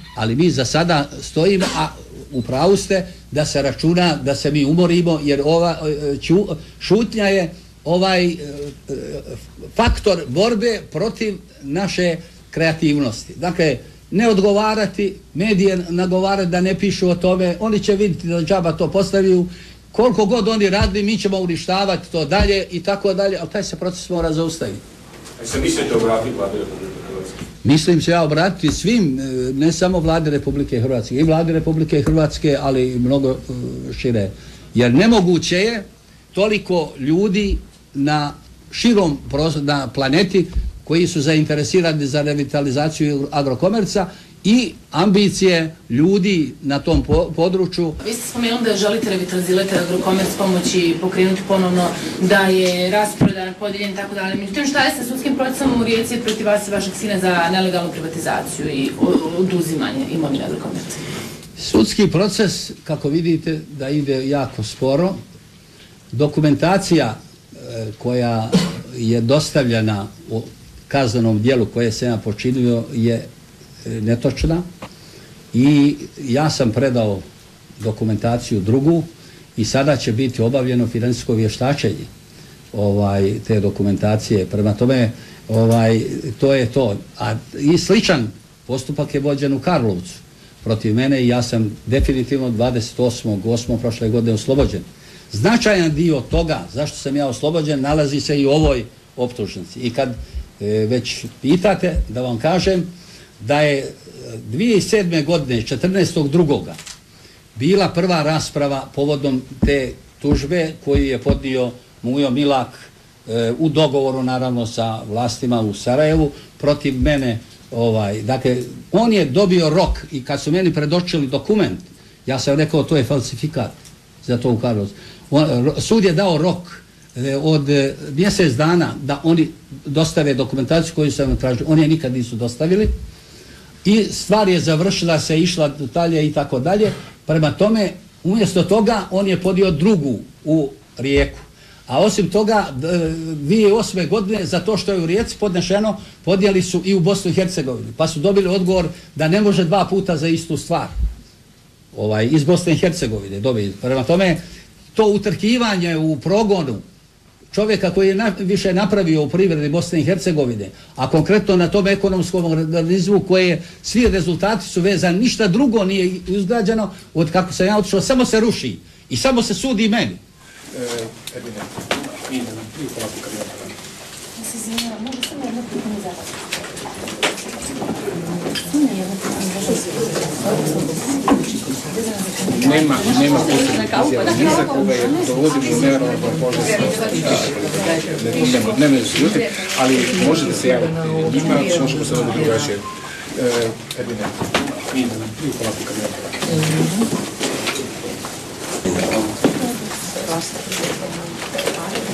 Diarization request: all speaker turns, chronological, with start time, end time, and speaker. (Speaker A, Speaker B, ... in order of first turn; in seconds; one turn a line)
Speaker A: 0.1-24.8
Speaker B: 25.4-27.4
Speaker A: 27.6-48.0
Speaker C: 48.0-61.0
Speaker A: 61.6-65.2
Speaker A: 66.1-73.3
Speaker A: 73.8-74.6
Speaker A: 75.5-77.2
Speaker A: 77.8-82.1
Speaker A: 82.7-102.9
Speaker A: 103.4-106.8
Speaker A: 107.5-132.9
Speaker A: 133.8-150.9
Speaker A: 151.9-154.4
Speaker A: 154.9-156.8
Speaker A: 157.5-170.2
Speaker D: 170.7-173.7
Speaker C: 174.5-175.9
Speaker C: 179.1-179.7
Speaker D: 182.5-192.8
Speaker D: 193.3-196.9